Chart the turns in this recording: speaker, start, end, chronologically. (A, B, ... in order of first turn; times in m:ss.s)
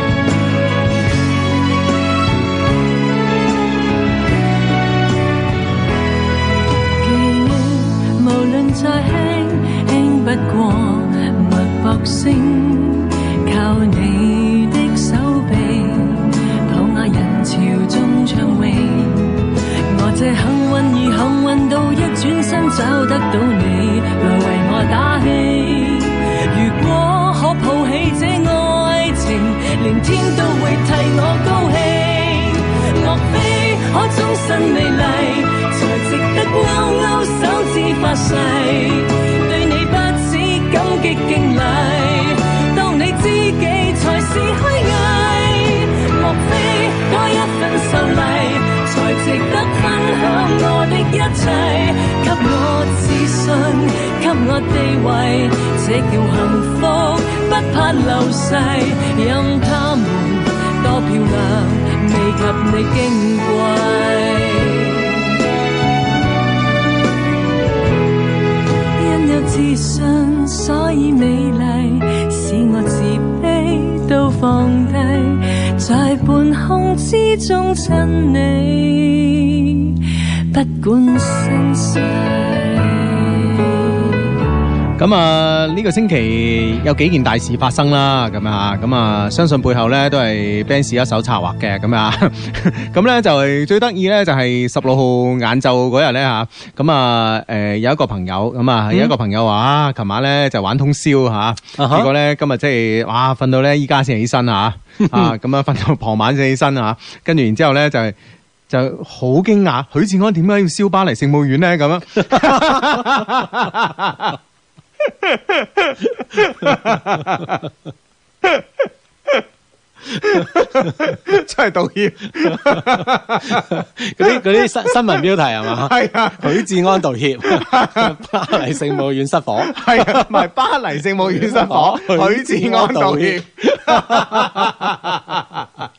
0:07.0-1:05.3 A
1:09.0-1:24.3 A
1:25.0-1:48.1 B
1:41.8-1:42.1 C
1:48.7-1:54.4 B
1:55.2-1:57.6 B
1:58.4-1:59.4 B
2:00.1-2:06.8 B
2:03.4-2:10.4 C
2:07.4-2:08.3 B
2:09.6-2:15.7 B
2:11.3-2:14.9 C